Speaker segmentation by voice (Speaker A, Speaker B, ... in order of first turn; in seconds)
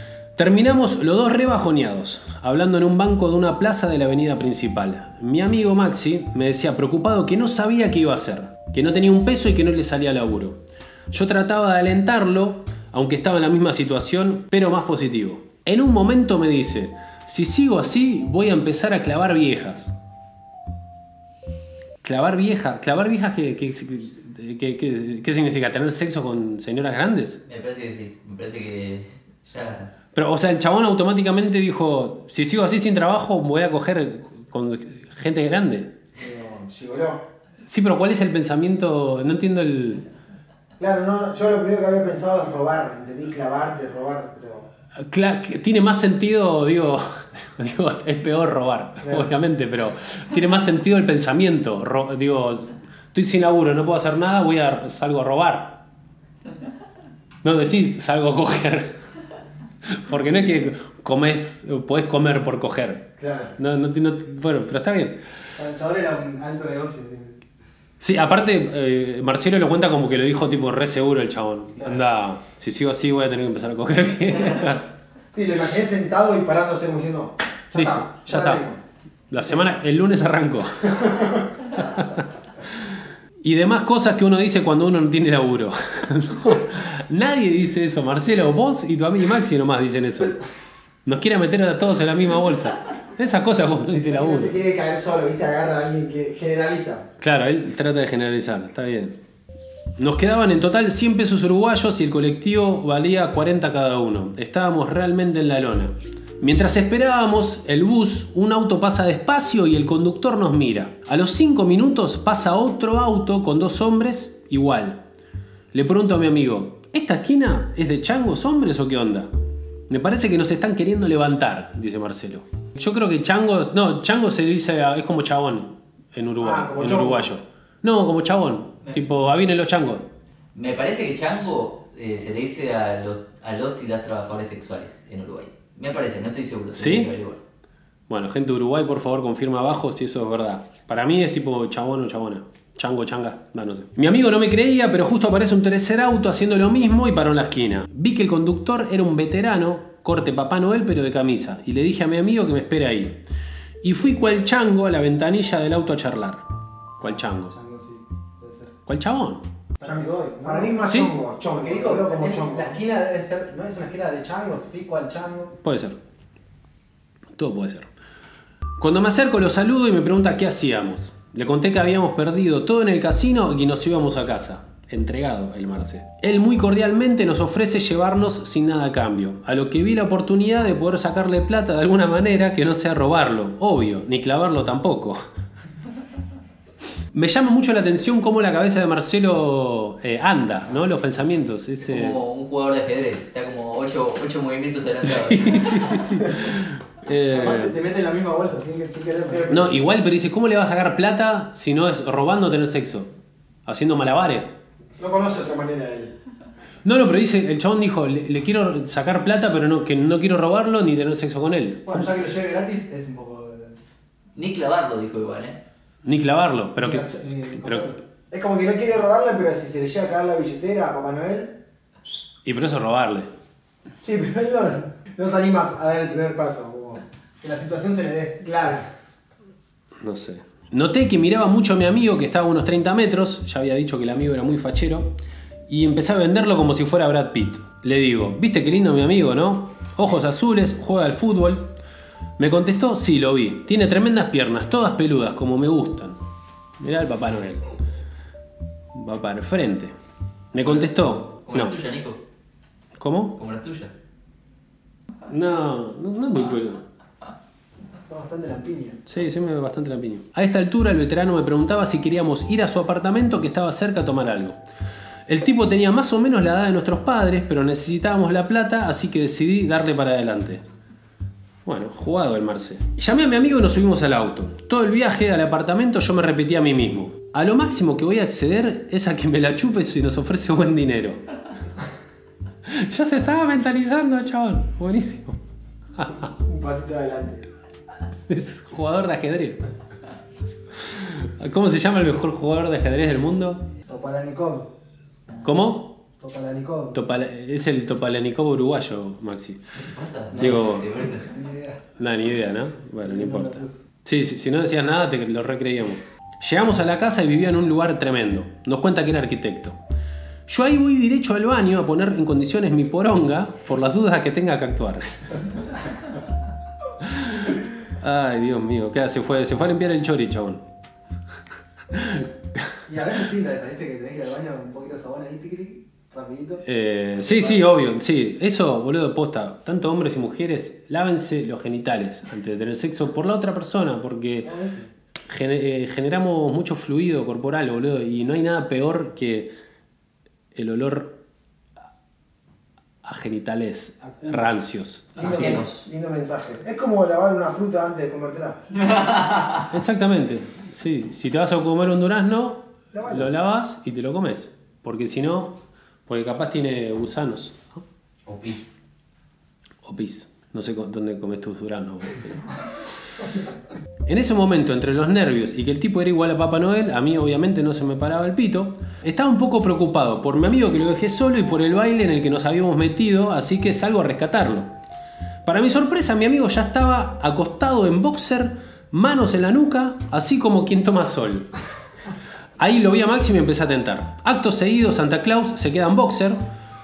Speaker A: 0.3-20.0, 22.0-27.4, 30.1-36.0, 37.6-40.0, 45.0-55.8, 57.4-58.9, 59.9-65.2, 68.0-74.9, 77.7-78.6, 79.3-80.9, 81.8-82.9, 83.4-90.4, 91.0-94.5, 97.2-99.2, 100.0-115.0, 115.7-119.3, 119.9-130.1, 136.7-137.1, 138.1-153.2, 153.8-156.5, 157.0-157.5, 158.8-159.4, 160.8-161.1, 165.6-166.0, 167.3-167.9, 168.8-185.2, 187.1-192.2, 195.0-197.8, 199.5-203.1, 203.7-204.6, 206.8-212.1, 216.0-217.9, 222.4-223.3, 230.0-241.7, 242.4-246.2, 246.8-247.7, 248.9-249.9, 250.5-251.8, 253.0-253.4, 255.3-256.8, 259.1-264.6, 265.3-270.6, 271.6-281.2, 282.6-285.4, 286.0-286.2, 288.3-289.6, 290.8-293.7, 295.4-296.0, 296.9-299.6, 300.3-300.9, 301.9-309.8, 310.5-315.7, 317.0-320.6, 321.9-322.7, 326.6-334.5, 335.3-339.5, 340.5-341.2, 343.0-345.4, 349.7-357.8, 359.8-362.4, 364.1-374.7, 375.4-381.5, 382.6-386.4
Speaker B: 27.5-29.9, 130.5-137.4, 191.8-195.8, 214.3-215.6, 250.7-252.2, 253.3-253.9, 299.8-301.3, 345.2-345.8, 348.9-349.6, 358.2-358.7
Speaker C: 36.1-37.2, 40.8-44.7, 49.0-49.3, 63.2-63.5, 75.3-78.8, 81.0-81.4, 94.1-97.0, 126.4-127.2, 159.8-162.8, 199.3-199.7, 205.0-206.1, 218.3-221.5, 224.0-227.0, 228.4-228.8, 286.2-287.5, 345.2-348.6, 352.9-353.3
Speaker D: 65.5-67.4, 157.0-158.7, 159.8-160.8, 161.6-165.5, 197.2-199.8, 211.8-213.8, 216.7-218.0, 227.4-228.5, 258.0-259.0, 293.8-294.7, 296.2-296.9, 300.3-300.6, 301.1-301.8, 303.0-303.8, 322.9-326.6, 327.3-327.5, 334.4-334.9, 344.2-344.5